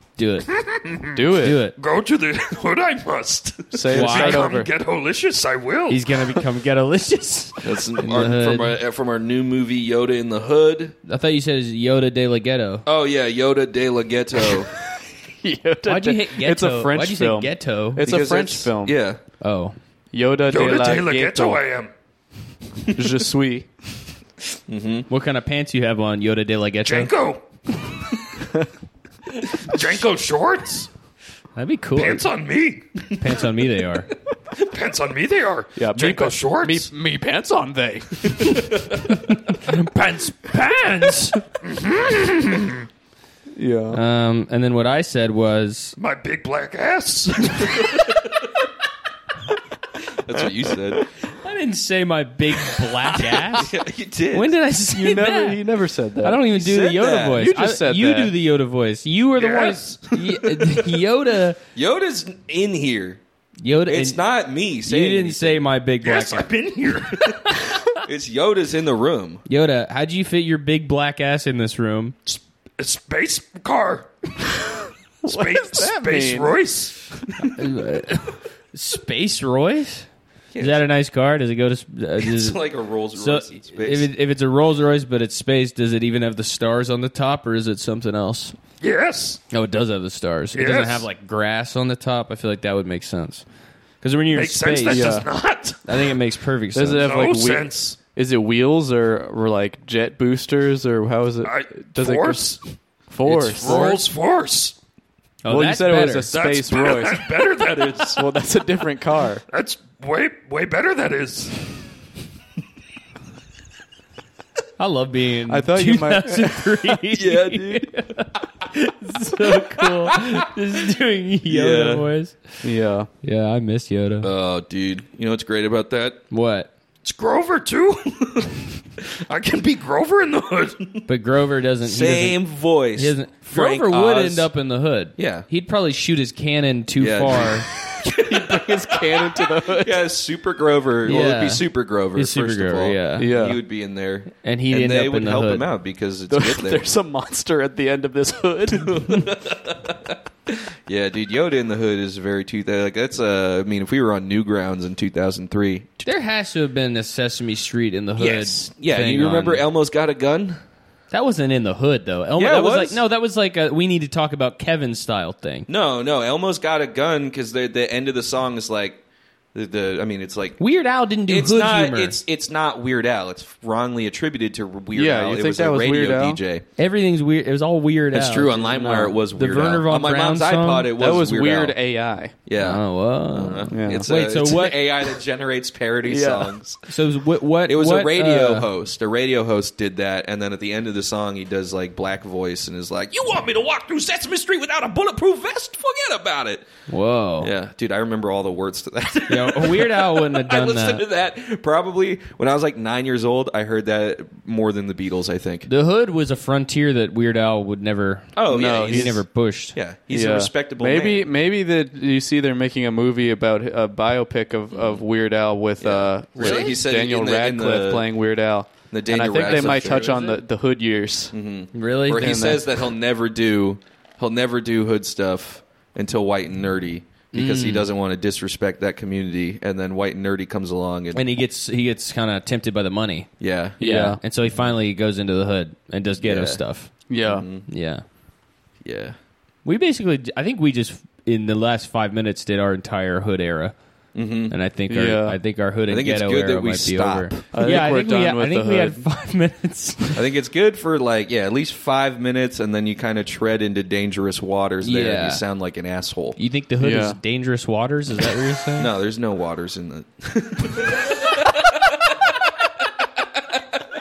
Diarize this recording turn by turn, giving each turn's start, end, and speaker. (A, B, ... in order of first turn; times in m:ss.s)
0:00.2-0:00.5 A
0:00.7-0:01.2 B
0:01.1-0:01.6 C
0:01.4-0:01.8 A
0:01.8-0:06.0 B
0:03.7-0:04.7 C
0:03.9-0:04.5 A
0:05.9-0:08.8 A
0:07.6-0:11.0 D
0:11.1-0:12.8 A
0:12.9-0:14.7 D
0:15.4-0:19.0 C
0:15.8-0:18.0 A
0:18.0-0:19.2 D
0:19.4-0:19.7 A
0:20.1-0:21.6 C
0:20.5-0:21.9 B
0:22.9-0:23.7 C
0:24.7-0:25.1 D
0:25.1-0:27.1 A
0:26.8-0:28.0 B
0:29.4-0:30.9 B
0:31.6-0:32.3 A
0:32.0-0:32.9 B
0:33.1-0:34.1 A
0:34.5-0:36.9 B
0:35.8-0:38.8 C
0:39.1-0:39.9 A
0:39.7-0:42.8 B
0:43.6-0:44.0 C
0:43.9-0:46.0 A
0:46.0-0:48.4 B
0:50.1-0:51.1 D
0:51.4-0:53.7 A
0:53.4-0:54.6 D
0:54.3-0:55.6 A
0:54.9-0:56.5 C
0:56.2-1:01.6 A
0:56.6-0:57.4 D
0:57.3-0:58.3 C
0:59.4-1:00.0 B
0:59.4-1:00.8 D
1:01.8-1:03.2 D
1:03.6-1:04.2 A
1:03.9-1:05.7 D
1:04.8-1:06.5 A
1:06.0-1:07.7 B
1:08.0-1:09.4 D
1:09.5-1:12.2 A
1:12.3-1:14.3 B
1:15.2-1:17.5 B
1:15.2-1:16.6 C
1:17.4-1:22.6 A
1:20.5-1:20.9 D
1:22.2-1:24.1 D
1:23.1-1:28.6 A
1:28.8-1:29.4 B
1:29.5-1:33.4 A
1:30.5-1:31.0 B
1:34.0-1:35.2 A
1:34.3-1:36.1 B
1:34.9-1:35.3 C
1:35.8-1:37.1 A
1:36.7-1:42.6 C
1:37.0-1:38.0 B
1:41.4-1:42.6 B
1:43.1-1:44.0 C
1:43.3-1:44.8 B
1:45.4-1:46.3 A
1:45.5-1:49.4 C
1:46.3-1:48.2 B
1:49.5-1:51.7 B
1:54.8-2:02.4 A
1:55.5-1:57.0 C
1:57.1-1:57.9 D
2:01.5-2:02.1 D
2:02.6-2:03.1 C
2:03.2-2:04.3 A
2:04.2-2:06.2 D
2:06.3-2:06.7 A
2:07.0-2:11.0 B
2:11.1-2:12.4 A
2:11.8-2:14.5 D
2:12.9-2:17.7 A
2:15.2-2:15.5 D
2:17.0-2:19.2 D
2:17.9-2:20.0 C
2:19.7-2:26.8 D
2:21.0-2:23.3 A
2:23.2-2:23.6 C
2:24.4-2:25.7 A
2:26.3-2:29.3 C
2:28.7-2:36.1 D
2:36.0-2:39.6 A
2:38.2-2:40.6 D
2:41.1-2:45.7 A
2:42.4-2:43.0 D
2:45.7-2:49.0 D
2:49.5-2:50.6 D
2:50.6-2:52.2 A
2:51.3-2:56.7 D
2:55.0-2:56.4 C
2:56.8-2:58.5 A
2:58.1-3:01.8 D
2:58.4-2:59.2 C
2:59.4-3:00.9 A
3:01.0-3:02.4 C
3:02.5-3:06.8 D
3:02.6-3:04.8 A
3:03.7-3:04.1 C
3:06.0-3:06.5 C
3:06.9-3:08.7 A
3:07.7-3:16.7 D
3:16.9-3:17.5 A
3:17.4-3:25.7 D
3:19.3-3:21.0 A
3:25.7-3:29.8 A
3:28.4-3:29.2 D
3:28.5-3:29.2 C
3:29.8-3:31.3 D
3:30.1-3:41.4 C
3:34.7-3:35.0 D
3:35.8-3:38.1 D
3:36.4-3:36.8 A
3:38.9-3:40.2 D
3:39.4-3:40.4 A
3:41.3-3:51.3 D
3:41.7-3:42.3 A
3:42.2-3:42.7 C
3:47.3-3:47.9 A
3:51.1-3:57.0 A
3:53.4-3:53.8 D
3:53.8-3:54.2 C
3:56.2-3:56.6 D
3:57.1-3:57.5 C
3:57.2-3:57.7 D
3:57.7-3:58.0 A
3:58.8-3:59.2 D
3:59.6-4:03.8 A
4:04.2-4:04.6 D
4:04.5-4:10.2 A
4:04.9-4:05.4 C
4:05.9-4:07.5 D
4:07.5-4:09.0 C
4:10.2-4:16.4 D
4:14.8-4:15.4 A
4:16.4-4:18.9 A
4:16.8-4:17.2 C
4:18.8-4:22.4 D